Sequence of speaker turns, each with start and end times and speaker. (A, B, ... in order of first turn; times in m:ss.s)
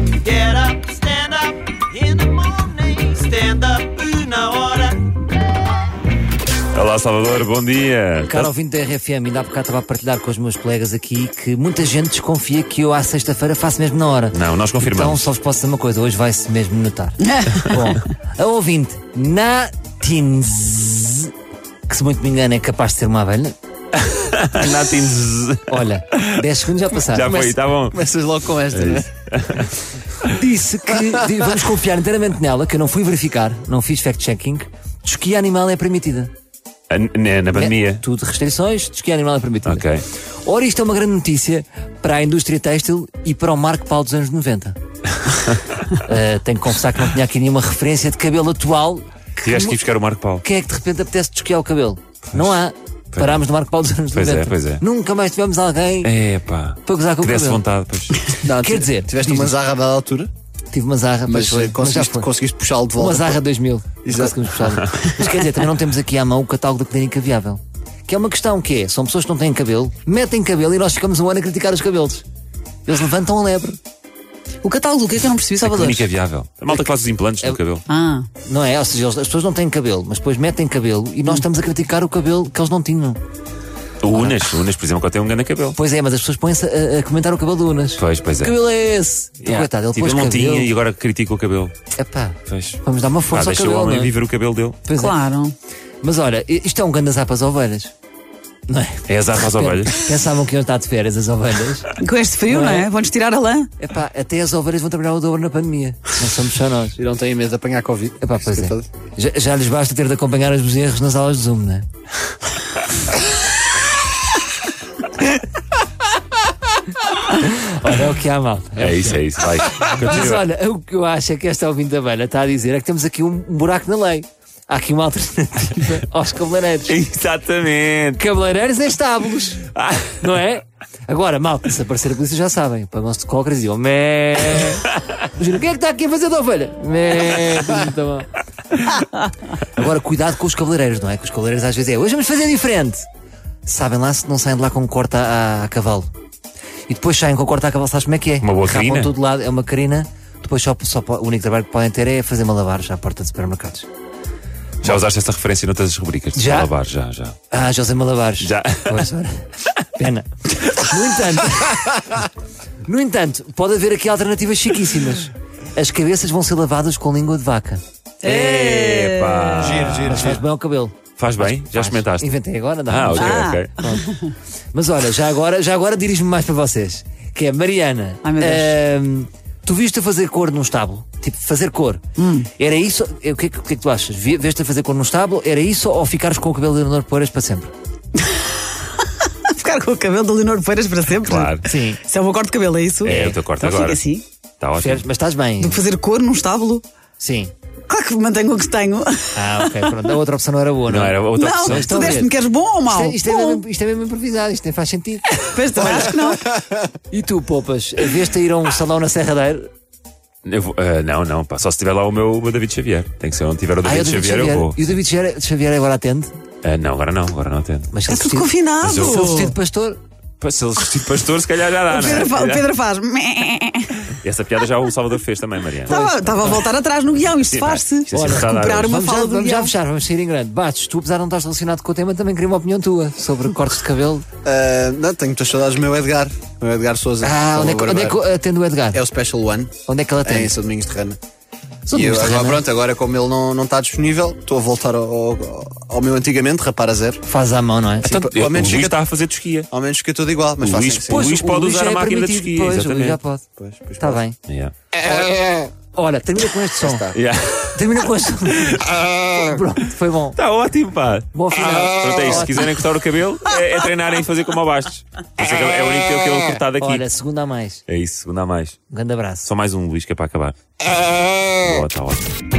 0:00.2-0:05.1 A
0:06.7-0:08.5 B
0:08.3-0:21.3 C
0:14.3-0:15.3 B
0:17.4-0:18.0 D
0:21.9-0:23.6 C
0:24.0-0:28.0 B
0:25.7-0:27.5 C
0:27.3-0:29.1 E
0:28.7-0:29.7 B
0:30.2-0:36.3 C
0:36.9-0:38.0 B
0:37.5-0:39.9 C
0:39.6-0:40.0 B
0:40.4-0:44.8 C
0:45.9-0:49.8 C
0:49.4-0:50.4 B
0:50.4-0:56.1 C
0:52.3-0:52.6 B
0:53.1-0:53.4 B
0:54.1-0:54.8 B
0:56.0-0:58.4 B
0:56.8-0:57.6 C
0:58.4-1:00.3 E
0:58.6-0:59.5 C
1:00.7-1:02.3 C
1:01.3-1:03.4 E
1:03.0-1:12.2 C
1:04.0-1:04.5 E
1:12.9-1:13.8 C
1:14.6-1:16.1 D
1:15.6-1:17.9 B
1:17.9-1:18.3 D
1:18.4-1:23.2 C
1:24.0-1:25.8 B
1:24.1-1:24.4 C
1:25.8-1:30.7 C
1:28.0-1:28.6 B
1:29.4-1:31.8 B
1:32.0-1:34.2 C
1:32.5-1:34.8 B
1:34.9-1:35.2 C
1:34.9-1:35.6 D
1:36.0-1:37.9 C
1:38.7-1:41.9 C
1:39.1-1:40.0 B
1:42.0-1:43.7 D
1:42.5-1:42.9 C
1:43.8-1:47.0 C
1:47.0-1:48.9 E
1:48.2-1:51.9 C
1:57.4-1:59.2 C
1:58.8-2:00.5 B
1:59.8-2:07.0 C
2:06.9-2:08.2 B
2:08.2-2:19.0 C
2:09.8-2:10.2 B
2:19.6-2:23.1 C
2:23.6-2:26.1 C
2:26.9-2:33.9 C
2:28.4-2:29.1 B
2:34.8-2:37.4 B
2:36.4-2:36.7 C
2:37.5-2:42.3 C
2:38.4-2:39.1 B
2:42.8-2:47.8 C
2:48.2-2:49.9 D
2:48.2-2:50.3 B
2:49.6-2:50.4 E
2:50.1-2:54.1 C
2:51.2-2:52.3 B
2:52.9-2:53.7 B
2:53.2-2:54.3 D
2:54.7-3:02.0 C
2:58.2-2:58.8 D
3:02.2-3:02.5 D
3:02.6-3:07.7 C
3:08.3-3:14.2 D
3:11.2-3:11.7 B
3:11.6-3:12.0 C
3:13.0-3:14.1 B
3:13.0-3:13.4 C
3:14.6-3:15.1 B
3:14.8-3:15.8 C
3:15.6-3:16.8 D
3:17.2-3:17.5 C
3:17.9-3:20.0 D
3:19.4-3:22.3 C
3:20.9-3:22.2 B
3:21.4-3:23.6 D
3:22.9-3:25.9 C
3:25.4-3:26.6 D
3:27.1-3:29.7 C
3:30.4-3:35.0 B
3:33.8-3:36.3 C
3:36.6-3:38.0 B
3:37.9-3:40.0 C
3:38.1-3:39.6 D
3:38.8-3:39.3 B
3:40.4-3:42.7 B
3:41.9-3:44.1 D
3:44.1-3:46.0 B
3:45.8-3:49.7 D
3:45.9-3:46.6 C
3:47.3-3:49.0 B
3:48.1-3:54.3 C
3:54.4-3:58.2 E
3:57.2-3:59.0 C
3:58.9-3:59.7 E
3:59.9-4:00.5 C
4:00.2-4:01.2 E
4:01.9-4:02.6 C
4:01.9-4:07.2 E
4:07.3-4:08.1 C
4:08.0-4:09.0 E
4:08.0-4:09.7 B
4:09.7-4:11.3 E
4:10.6-4:13.2 B
4:11.1-4:13.5 C
4:13.6-4:14.2 E
4:14.0-4:14.4 C
4:14.4-4:14.8 B
4:15.2-4:15.6 E
4:16.0-4:17.1 C
4:16.8-4:17.2 E
4:17.1-4:17.9 B
4:17.7-4:20.4 C
4:20.4-4:27.0 B
4:21.3-4:22.7 C
4:26.8-4:27.8 C
4:27.9-4:28.8 B
4:28.9-4:29.5 C
4:29.4-4:32.4 B